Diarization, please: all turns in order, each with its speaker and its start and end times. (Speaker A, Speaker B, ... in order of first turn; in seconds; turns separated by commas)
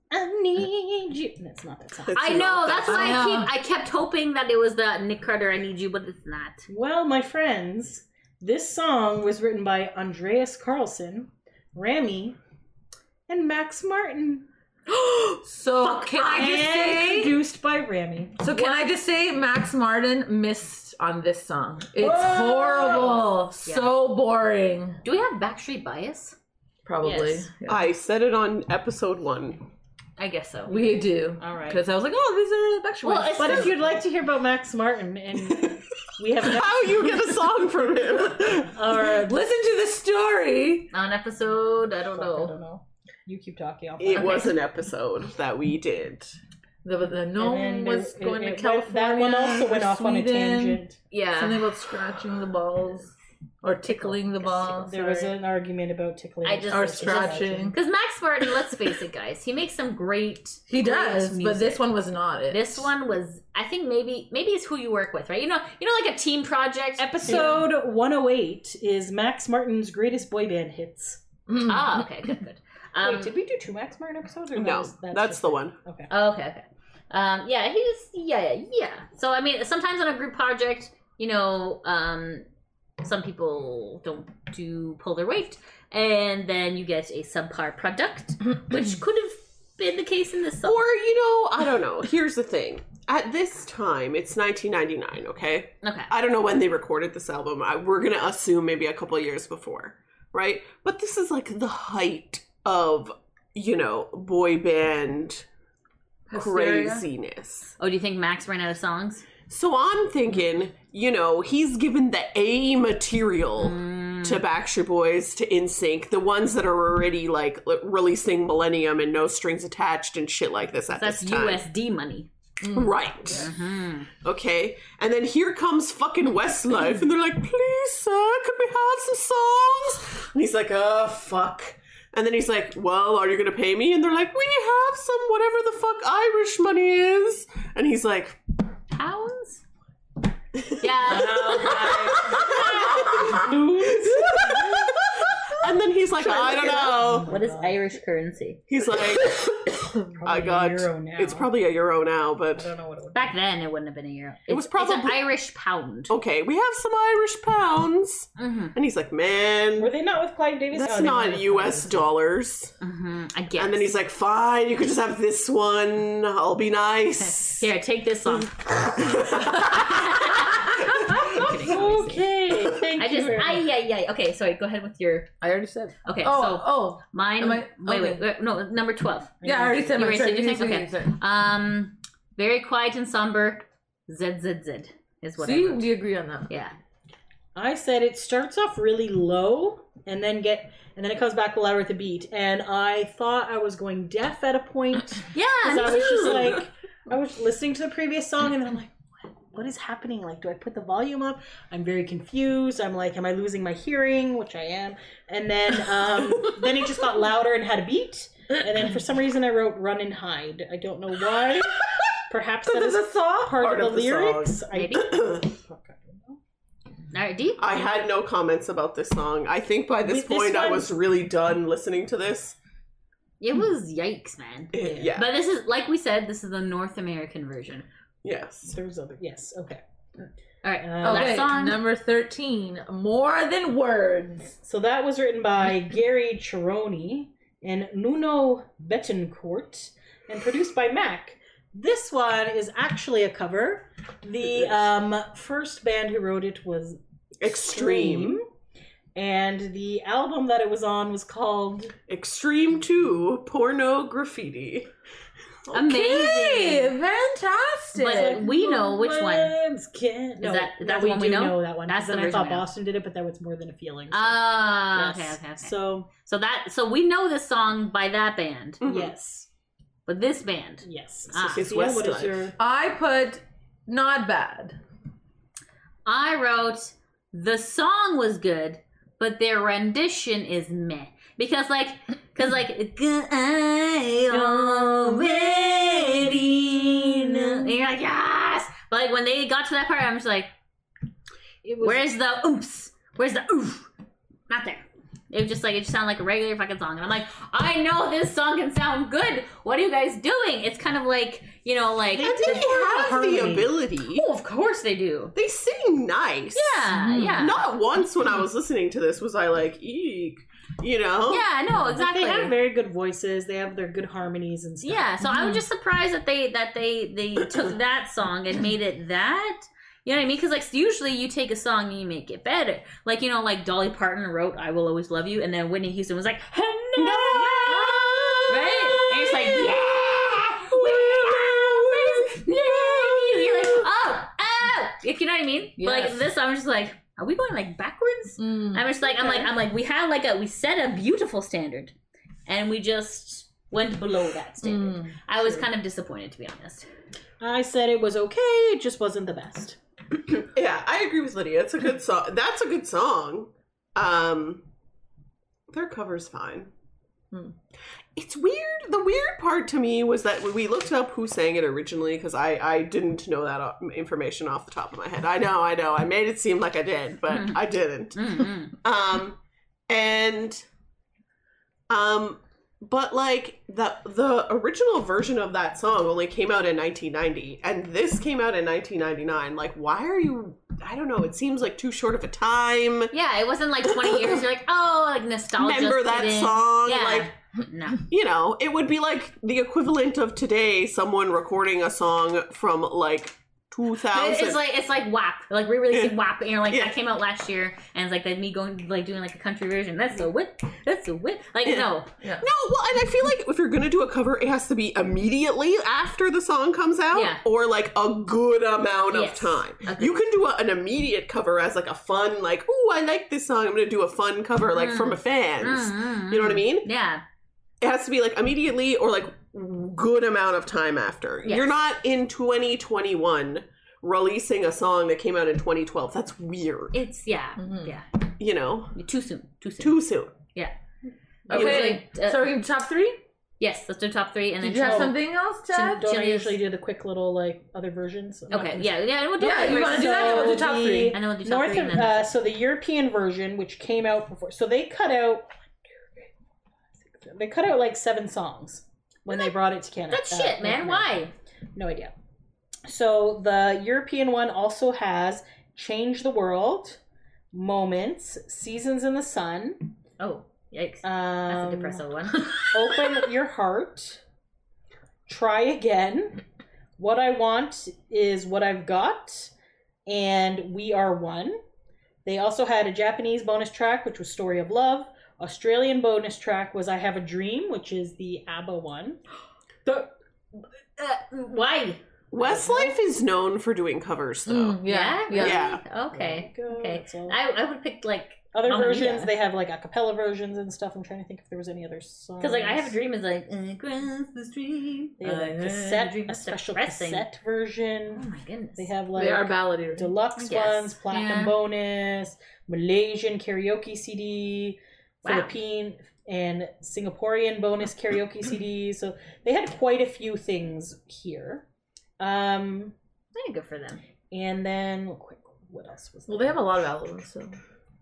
Speaker A: 0.1-3.1, Speaker B: 2.1-3.2, Speaker C: 2.1-6.7, Speaker D: 2.9-3.5, Speaker A: 6.7-12.4, Speaker A: 13.3-14.5, Speaker D: 14.9-17.3, Speaker A: 15.9-18.4, Speaker D: 18.4-25.0, Speaker C: 18.5-18.9, Speaker A: 22.0-23.3, Speaker C: 22.8-23.1, Speaker C: 23.6-23.9, Speaker C: 25.0-26.4, Speaker D: 26.9-27.9, Speaker A: 27.0-27.5, Speaker B: 27.7-29.6, Speaker C: 30.2-31.8, Speaker D: 30.7-33.9, Speaker C: 33.0-33.8, Speaker A: 33.3-37.2, Speaker B: 36.4-38.7, Speaker A: 38.4-39.5, Speaker D: 39.1-40.9, Speaker C: 40.9-42.6, Speaker A: 42.1-44.5, Speaker B: 44.0-46.4, Speaker C: 44.1-44.5, Speaker D: 46.8-50.8, Speaker A: 47.4-51.0, Speaker C: 51.1-51.6, Speaker D: 51.4-55.3, Speaker C: 53.8-55.0, Speaker A: 54.9-57.8, Speaker C: 56.4-61.8, Speaker D: 56.7-57.8, Speaker D: 60.7-62.9, Speaker C: 62.5-67.6, Speaker A: 67.0-71.2, Speaker D: 71.5-72.1, Speaker C: 71.6-73.3, Speaker A: 73.0-76.1, Speaker B: 74.5-75.8, Speaker C: 76.1-82.5, Speaker C: 83.0-90.8, Speaker B: 90.6-105.5, Speaker C: 95.8-96.1, Speaker D: 106.3-107.0, Speaker B: 106.3-107.7, Speaker C: 107.8-109.3, Speaker B: 109.5-121.7, Speaker C: 113.6-114.4, Speaker C: 121.0-122.3, Speaker D: 122.6-123.0, Speaker B: 122.7-123.5, Speaker C: 123.3-124.1, Speaker B: 124.2-138.4, Speaker C: 138.9-139.6, Speaker B: 140.6-145.0, Speaker C: 140.8-142.6, Speaker A: 141.1-145.2, Speaker B: 145.6-147.3, Speaker A: 146.2-147.8, Speaker C: 147.3-148.6, Speaker B: 148.7-152.7, Speaker A: 150.1-151.5, Speaker A: 152.6-153.4, Speaker C: 153.1-156.1, Speaker B: 154.5-155.2, Speaker B: 156.1-159.9, Speaker C: 158.4-158.8, Speaker A: 159.8-162.1, Speaker B: 160.7-162.7, Speaker C: 162.8-163.9, Speaker B: 163.6-167.7, Speaker C: 167.2-172.3, Speaker B: 168.8-170.2, Speaker D: 170.6-171.8, Speaker A: 171.1-173.7, Speaker C: 172.8-175.3, Speaker D: 175.4-178.2, Speaker C: 176.1-185.9, Speaker A: 179.4-180.0, Speaker D: 179.4-181.2, Speaker D: 185.4-186.5, Speaker C: 186.5-186.8, Speaker A: 187.6-216.4, Speaker C: 195.3-196.6, Speaker D: 212.7-213.6, Speaker B: 213.5-215.4, Speaker C: 214.7-215.3, Speaker C: 217.1-217.9, Speaker B: 217.6-222.6, Speaker A: 220.1-221.0, Speaker C: 223.4-227.9, Speaker B: 224.7-225.3, Speaker B: 228.2-228.7, Speaker A: 228.7-229.8, Speaker C: 230.6-231.8, Speaker A: 230.8-231.5, Speaker D: 231.0-234.5, Speaker A: 234.5-248.4, Speaker B: 247.4-248.4, Speaker A: 249.2-251.9, Speaker B: 252.1-254.9, Speaker C: 255.7-256.9, Speaker D: 255.8-258.4, Speaker C: 258.0-259.6, Speaker A: 258.0-266.1, Speaker C: 260.4-262.6, Speaker C: 264.1-268.8, Speaker B: 268.8-269.1, Speaker A: 268.8-269.5, Speaker C: 270.1-271.7, Speaker A: 270.8-272.6, Speaker B: 271.4-272.5, Speaker D: 272.6-274.8, Speaker C: 276.1-290.5, Speaker A: 284.3-287.7, Speaker A: 291.6-292.1, Speaker C: 291.8-293.9, Speaker C: 294.5-302.7, Speaker A: 302.1-303.7, Speaker B: 302.2-304.3, Speaker C: 304.1-305.4, Speaker B: 305.4-311.4, Speaker C: 306.5-307.7, Speaker D: 306.9-307.5, Speaker C: 311.3-312.5, Speaker A: 311.7-315.5, Speaker C: 314.8-341.9, Speaker B: 327.0-329.7, Speaker B: 330.6-333.9, Speaker D: 335.8-336.2, Speaker D: 338.4-338.9, Speaker A: 339.0-339.5, Speaker C: 342.5-346.9, Speaker D: 344.6-345.2, Speaker A: 345.4-345.6, Speaker A: 347.4-349.8, Speaker B: 350.5-354.7, Speaker B: 355.7-356.7, Speaker B: 358.2-370.6, Speaker C: 367.3-367.6, Speaker C: 368.1-368.8, Speaker B: 371.9-383.1, Speaker C: 383.1-388.1, Speaker B: 384.1-384.4, Speaker B: 385.6-387.3, Speaker B: 388.0-394.6, Speaker C: 394.1-402.1, Speaker B: 395.9-396.9, Speaker B: 402.4-416.9, Speaker C: 407.1-407.4, Speaker C: 409.1-410.2, Speaker C: 414.8-417.2, Speaker B: 417.8-427.0, Speaker C: 421.4-421.8, Speaker C: 426.9-428.1, Speaker D: 427.6-427.9, Speaker B: 428.4-429.0, Speaker C: 428.9-430.0, Speaker B: 429.8-430.3, Speaker A: 431.5-431.9, Speaker C: 431.5-432.6, Speaker D: 431.5-433.2, Speaker C: 433.6-435.2, Speaker D: 434.6-436.1, Speaker A: 434.8-435.1, Speaker A: 435.7-446.3, Speaker C: 435.8-436.6, Speaker C: 438.5-442.3, Speaker D: 439.4-441.2, Speaker A: 447.0-451.2, Speaker C: 450.1-451.3, Speaker A: 451.8-452.1, Speaker A: 452.9-457.0, Speaker A: 457.5-459.9, Speaker C: 460.2-462.7, Speaker A: 461.0-462.1, Speaker D: 462.4-462.7, Speaker A: 462.6-464.2, Speaker A: 465.3-466.4, Speaker A: 467.0-469.5, Speaker A: 470.1-471.6, Speaker A: 472.2-479.2, Speaker C: 481.0-482.9, Speaker B: 482.3-484.8, Speaker D: 484.5-485.6, Speaker C: 484.9-489.3, Speaker B: 485.4-485.8, Speaker A: 486.1-487.4, Speaker A: 488.5-493.0, Speaker C: 492.4-497.2, Speaker A: 495.2-511.7, Speaker D: 495.3-496.0, Speaker C: 498.1-498.9, Speaker D: 499.2-500.1, Speaker C: 500.4-501.0, Speaker D: 501.1-501.5, Speaker C: 505.2-505.5, Speaker A: 512.2-513.0, Speaker C: 513.3-514.0, Speaker A: 514.3-516.7, Speaker D: 516.3-517.6